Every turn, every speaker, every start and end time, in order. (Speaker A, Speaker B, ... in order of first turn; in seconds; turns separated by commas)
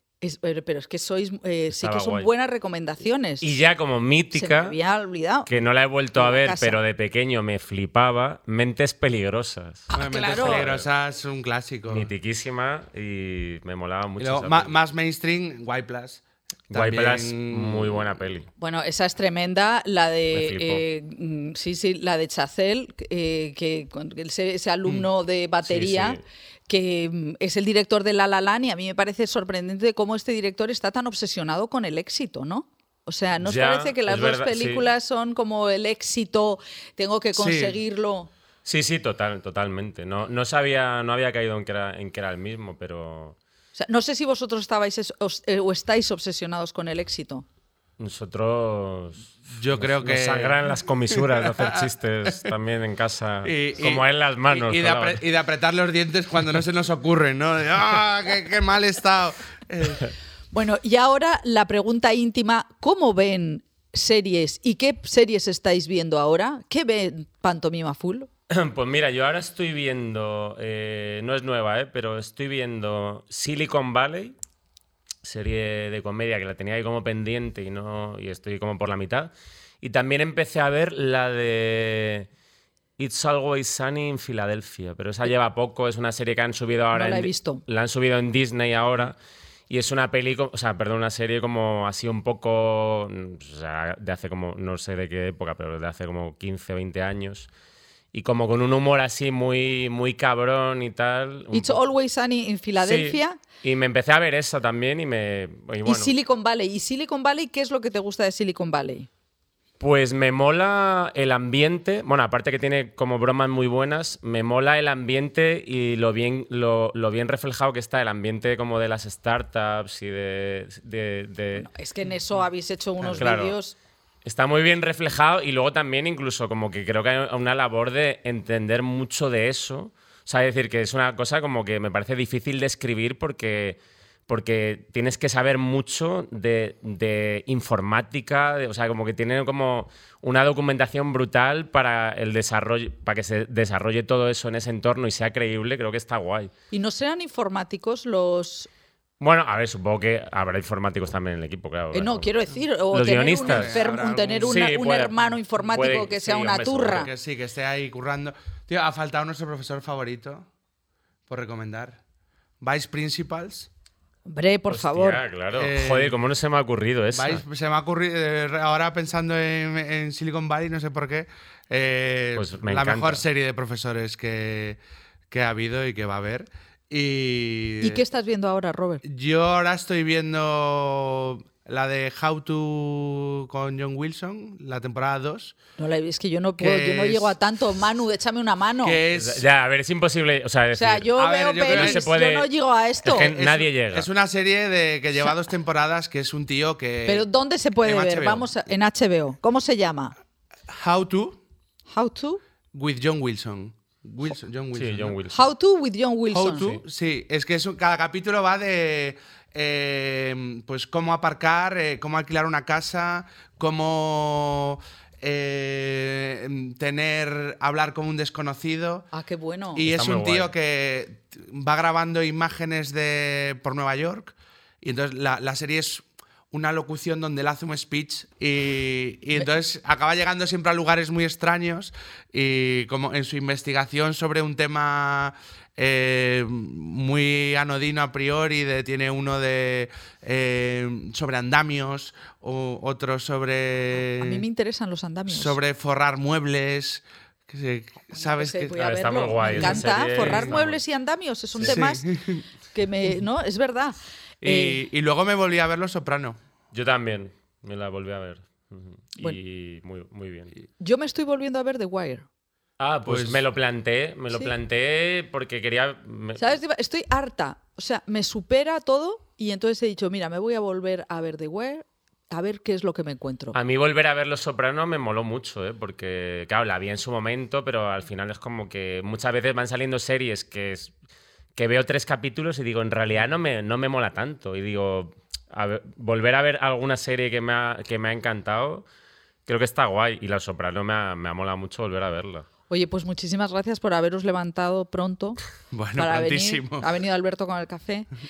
Speaker A: 0.2-3.6, Speaker B: 1.8-2.3, Speaker B: 3.4-4.8, Speaker A: 4.3-5.5, Speaker B: 5.5-10.9, Speaker A: 6.2-6.8, Speaker A: 9.9-10.7, Speaker C: 9.9-12.1, Speaker B: 11.9-14.7, Speaker C: 14.2-18.1, Speaker B: 16.7-18.5, Speaker A: 18.6-38.3, Speaker B: 20.3-20.8, Speaker B: 25.6-26.2, Speaker B: 33.4-34.9, Speaker C: 37.3-37.8, Speaker B: 38.6-43.4, Speaker A: 43.8-47.5, Speaker B: 48.0-55.2, Speaker C: 49.5-50.6, Speaker C: 51.1-52.4, Speaker C: 53.4-60.1, Speaker A: 60.5-68.3, Speaker B: 68.5-74.3, Speaker B: 75.2-82.3, Speaker B: 83.0-89.2, Speaker A: 86.9-87.6, Speaker B: 89.7-97.5, Speaker B: 98.1-101.8, Speaker A: 101.5-103.4, Speaker B: 102.8-106.1, Speaker A: 105.8-109.1, Speaker B: 109.8-121.7, Speaker A: 121.5-123.8, Speaker C: 123.0-123.3, Speaker B: 123.2-123.5, Speaker B: 124.2-146.5, Speaker A: 146.7-148.7, Speaker B: 149.2-152.3, Speaker A: 151.9-157.1, Speaker B: 152.9-153.8, Speaker C: 153.3-154.7, Speaker B: 154.4-157.1, Speaker C: 155.8-156.0, Speaker C: 157.0-160.5, Speaker C: 161.3-162.0, Speaker C: 162.6-163.7, Speaker A: 164.3-165.2, Speaker B: 164.7-167.4, Speaker C: 165.5-166.2, Speaker C: 167.1-174.8, Speaker B: 172.3-173.2, Speaker C: 175.3-178.0, Speaker A: 177.8-179.0, Speaker C: 179.0-185.6, Speaker A: 185.8-189.0, Speaker C: 186.6-187.3, Speaker C: 188.8-189.4, Speaker B: 189.1-191.1, Speaker A: 190.7-193.3, Speaker C: 191.2-192.1, Speaker B: 191.7-192.5, Speaker B: 193.0-194.1, Speaker C: 193.2-197.3, Speaker A: 197.1-200.1, Speaker C: 197.8-198.7, Speaker C: 200.7-201.4, Speaker A: 201.9-202.4, Speaker C: 202.7-205.2, Speaker B: 204.7-205.4, Speaker A: 205.3-206.7, Speaker C: 206.3-219.1, Speaker B: 206.5-206.8, Speaker A: 219.1-219.8, Speaker C: 219.8-244.4, Speaker B: 219.8-220.5, Speaker A: 244.2-245.6, Speaker C: 245.3-248.8, Speaker A: 248.2-252.1, Speaker B: 248.8-250.8, Speaker C: 249.4-250.5, Speaker B: 251.5-251.8, Speaker C: 251.6-252.4, Speaker A: 252.7-254.8, Speaker C: 254.4-256.4, Speaker B: 256.7-260.5, Speaker A: 260.8-262.3, Speaker B: 262.8-266.6, Speaker C: 263.1-263.4, Speaker A: 266.4-273.6, Speaker B: 273.5-280.9, Speaker B: 281.6-288.9, Speaker B: 289.5-292.5, Speaker A: 292.7-295.4, Speaker C: 295.7-296.9, Speaker A: 296.0-298.1